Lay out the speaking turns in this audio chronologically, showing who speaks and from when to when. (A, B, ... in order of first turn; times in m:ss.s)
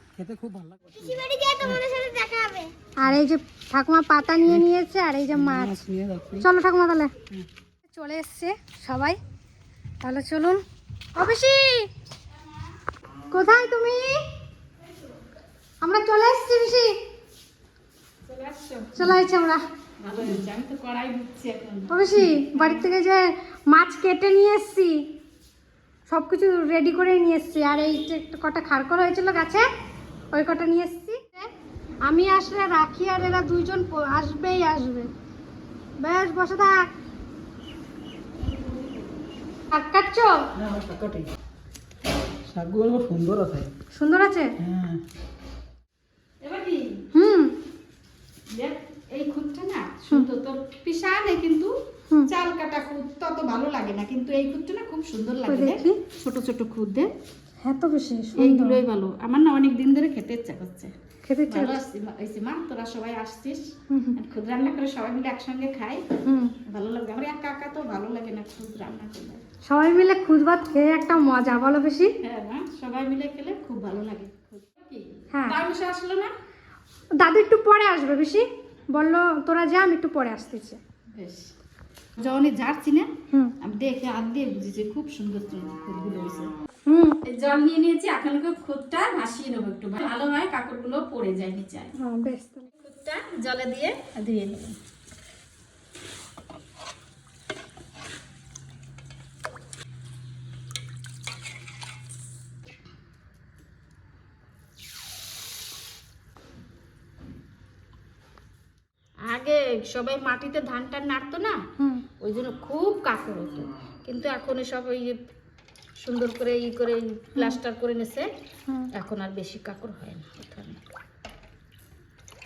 0:00.2-0:02.0 A
0:02.6-0:05.8 B
0:05.3-0:06.5 A
0:06.4-0:07.1 B
0:07.9-0:09.2 B
0:10.0-0:10.6 B
0:11.2-0:11.9 B
0:13.3-0:14.2 B
0:15.8-0:16.9 B
0:18.2-0:19.1 C
0:19.0-0:19.6 B
0:20.0-0:22.8 C
0:21.9-0:25.0 B
0:26.1-0:29.7 B
0:30.3-0:31.5 B
0:32.0-0:35.1 B
0:36.0-0:36.8 B
0:38.4-0:39.1 C
0:39.7-0:40.4 B
0:40.6-0:41.3 A
0:42.5-0:43.7 A
0:43.9-0:44.5 B
0:44.6-0:45.0 A
0:46.4-0:47.0 C
0:47.1-0:47.5 B
0:48.5-0:51.7 C
0:52.3-0:57.1 C
0:55.4-0:56.0 B
0:57.6-0:58.8 B
0:58.4-1:00.9 C
1:01.2-1:01.8 B
1:01.5-1:06.0 C
1:03.9-1:04.2 B
1:06.2-1:06.5 B
1:06.7-1:09.4 C
1:09.6-1:12.1 B
1:12.2-1:16.3 C
1:15.3-1:15.6 B
1:17.2-1:20.8 B
1:21.1-1:21.5 C
1:22.2-1:23.1 C
1:23.6-1:26.5 C
1:26.9-1:27.2 B
1:27.2-1:31.9 C
1:32.0-1:32.7 B
1:32.8-1:34.8 C
1:49.2-1:51.6 C
1:51.8-1:52.0 B
1:52.2-1:55.2 C
1:56.0-1:58.3 C
1:58.9-2:00.8 C